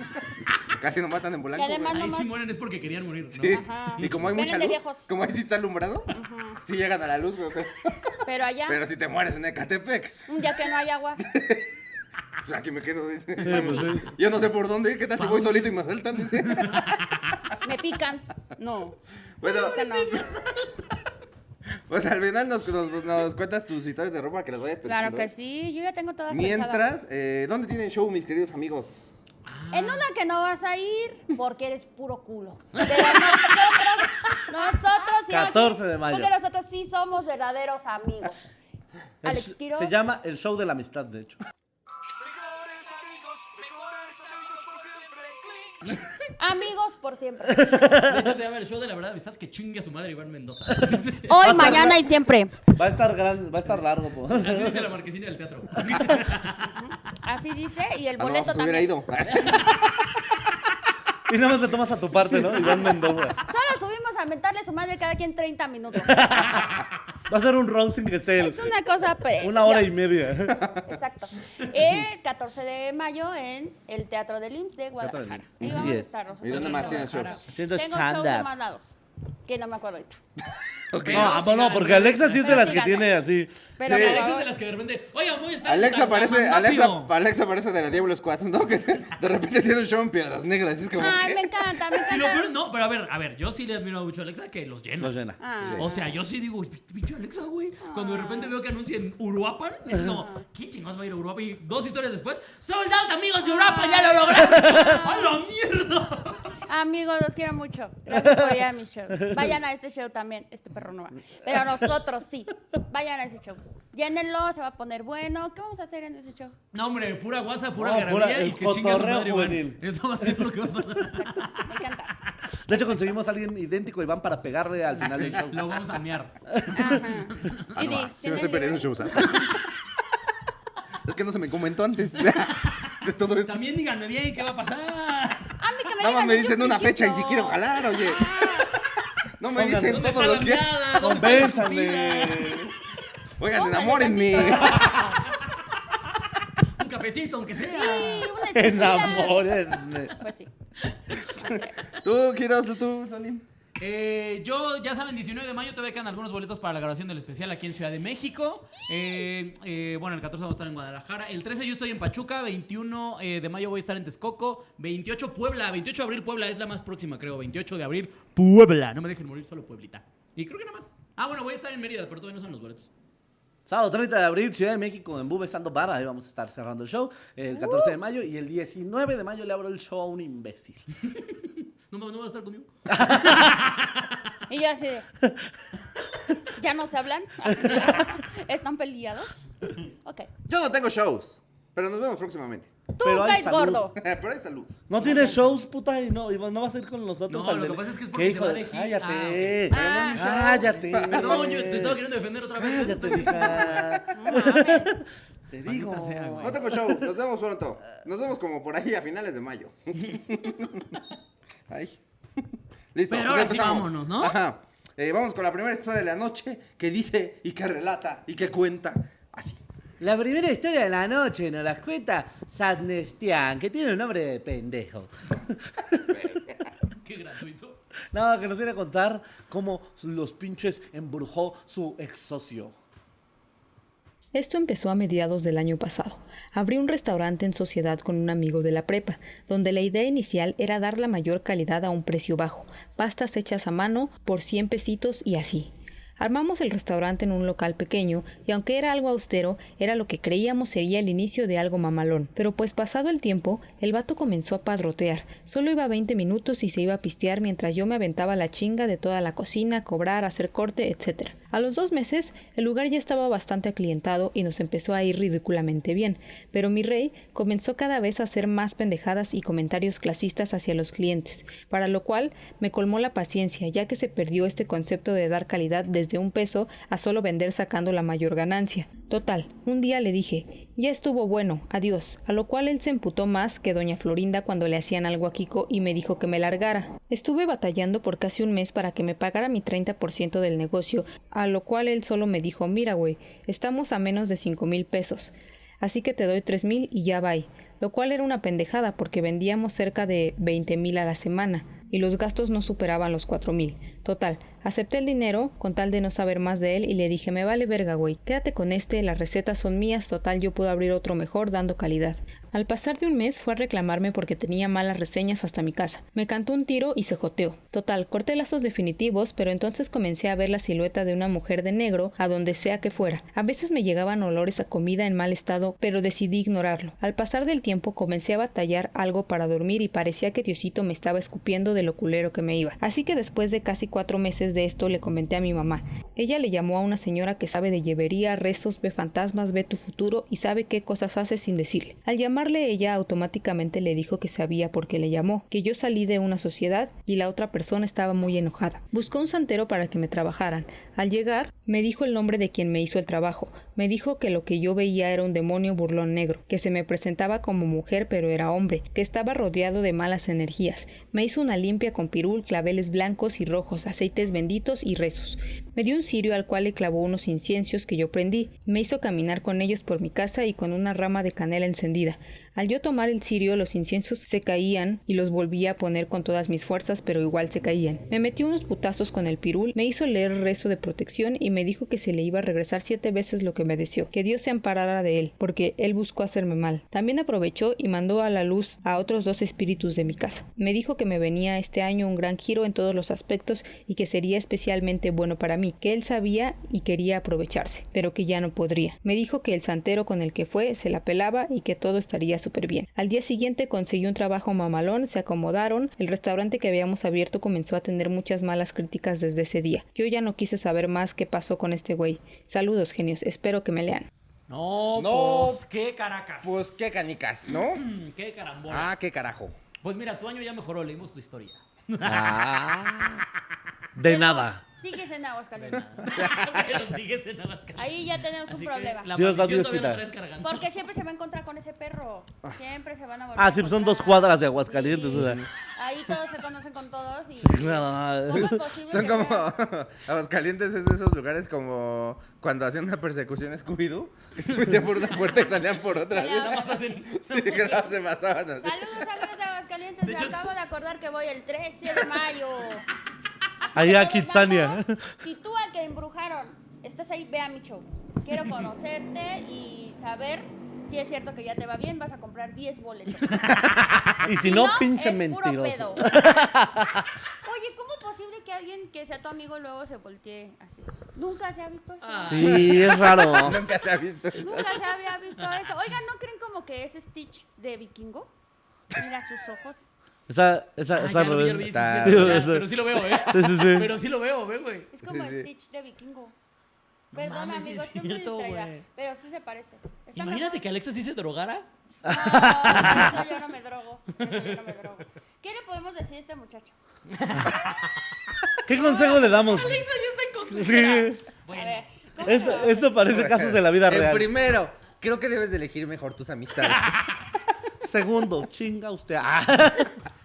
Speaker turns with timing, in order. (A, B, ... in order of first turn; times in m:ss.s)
0:00.7-0:02.0 A
0:01.5-0:02.4 B
0:01.9-0:04.2 C
0:03.3-0:06.1 A
0:03.5-0:05.1 B
0:06.1-0:06.6 B
0:06.6-0:10.2 A
0:08.2-0:08.8 B
0:10.3-0:11.2 B
0:11.3-0:11.7 A
0:12.4-0:17.0 A
0:13.4-0:14.1 D
0:13.4-0:14.0 B
0:15.2-0:15.6 C
0:16.4-0:17.0 C
0:17.6-0:20.3 B
0:19.4-0:20.5 A
0:21.9-0:25.3 A
0:24.8-0:26.9 B
0:26.3-0:29.0 A
0:29.5-0:30.1 C
0:29.7-0:38.5 B
0:32.8-0:33.7 C
0:35.3-0:36.3 D
0:39.2-0:39.9 B
0:39.2-0:41.4 D
0:43.4-0:45.0 C
0:45.7-0:46.1 C
0:46.4-0:47.8 B
0:47.6-0:48.3 D
0:48.0-0:51.9 C
0:51.3-0:52.6 B
0:51.4-0:52.1 D
0:52.7-0:54.9 D
0:54.3-0:56.7 C
0:56.6-0:58.9 B
0:58.2-1:00.2 A
1:01.3-1:03.4 D
1:03.4-1:06.7 B
1:06.0-1:06.6 D
1:07.3-1:08.7 D
1:08.4-1:09.9 B
1:09.4-1:10.7 D
1:10.6-1:10.8 A
1:10.9-1:20.2 B
1:15.0-1:16.1 D
1:16.4-1:17.4 A
1:16.4-1:17.4 C
1:17.5-1:18.5 D
1:20.9-1:21.4 A
1:21.0-1:22.9 C
1:21.1-1:23.5 D
1:22.4-1:23.2 B
1:23.8-1:24.5 B
1:23.8-1:24.3 A
1:23.8-1:27.1 C
1:25.6-1:31.7 A
1:31.0-1:32.5 B
1:32.1-1:35.2 C
1:35.0-1:35.4 D
1:35.4-1:36.2 B
1:35.8-1:46.5 C
1:37.8-1:38.6 B
1:40.1-1:40.4 B
1:43.4-1:45.4 B
1:46.7-1:56.6 B
1:48.1-1:48.6 D
1:49.2-1:49.5 D
1:56.7-2:01.8 C
1:57.8-2:00.6 D
2:01.1-2:02.2 B
2:02.7-2:05.7 D
2:04.9-2:07.7 C
2:06.5-2:07.0 D
2:06.7-2:09.3 B
2:07.7-2:09.6 A
2:09.2-2:09.5 C
2:11.0-2:13.6 A
2:12.2-2:15.6 C
2:15.6-2:18.7 B
2:16.0-2:18.4 A
2:19.4-2:22.8 A
2:19.5-2:20.2 D
2:19.8-2:21.7 C
2:21.0-2:22.7 D
2:23.4-2:25.1 A
2:23.5-2:25.0 B
2:24.5-2:25.4 C
2:26.8-2:28.4 C
2:27.7-2:29.5 B
2:28.6-2:30.2 D
2:30.1-2:30.5 B
2:31.4-2:31.7 B
2:32.0-2:33.4 A
2:33.8-2:52.9 C
2:53.7-3:00.8 D
2:57.5-2:58.0 B
3:01.1-3:04.2 C
3:02.9-3:03.5 D
3:04.5-3:05.1 B
3:06.5-3:09.4 B
3:07.6-3:07.9 D
3:10.0-3:10.3 B
3:10.5-3:12.7 A
3:12.9-3:14.0 B
3:13.0-3:13.9 D
3:14.0-3:15.2 A
3:14.9-3:22.0 D
3:15.0-3:15.3 C
3:17.3-3:19.7 C
3:19.7-3:20.3 B
3:19.7-3:21.5 A
3:20.6-3:24.0 C
3:22.6-3:27.1 D
3:24.1-3:25.0 B
3:25.7-3:26.6 C
3:26.4-3:30.9 A
3:31.7-3:32.0 A
3:32.9-3:39.6 A
3:33.1-3:34.4 C
3:40.0-3:46.2 D
3:46.1-3:46.4 A
3:47.0-3:47.8 C
3:48.1-3:52.8 D
3:54.3-6:54.1 E
6:54.5-6:58.9 C
6:55.0-6:55.6 A
6:56.4-6:57.9 A
6:58.7-6:59.6 A
6:59.8-7:02.4 C
7:02.0-7:03.2 D
7:04.0-7:04.6 D
7:04.0-7:06.4 B
7:05.6-7:10.7 C
7:06.0-7:06.8 A
7:07.8-7:09.1 B
7:09.1-7:10.0 D
7:10.4-7:19.5 B
7:13.4-7:15.5 D
7:15.2-7:15.4 A
7:17.4-7:18.6 D
7:18.4-7:28.9 A
7:24.5-7:25.4 C
7:26.1-7:27.1 B
7:26.1-7:27.9 C
7:28.6-7:32.9 B
7:30.0-7:30.5 C
7:33.6-7:43.6 B
7:33.8-7:35.0 D
7:44.2-7:47.1 D
7:44.2-7:46.1 B
7:47.4-7:52.8 B
7:52.0-7:53.0 C
7:52.3-7:53.6 D
7:52.6-7:54.8 A
7:54.3-7:58.3 B
7:58.9-7:59.9 B
8:00.3-8:02.7 D
8:00.9-8:04.9 C
8:01.7-8:02.6 A
8:03.3-8:03.9 D
8:04.9-8:06.4 B
8:05.0-8:05.5 A
8:07.1-8:08.8 C
8:07.1-8:10.6 B
8:10.2-8:11.7 C
8:12.0-8:13.1 D
8:12.0-8:16.8 B
8:12.4-8:13.2 C
8:14.2-8:14.6 C
8:17.1-8:17.8 C
8:18.6-8:19.8 D
8:18.7-8:22.6 C
8:18.8-8:19.5 B
8:20.5-8:21.2 D
8:21.5-8:23.0 B
8:22.2-8:24.3 D
8:23.0-8:27.0 A
8:26.6-8:27.1 C
8:27.8-8:30.0 D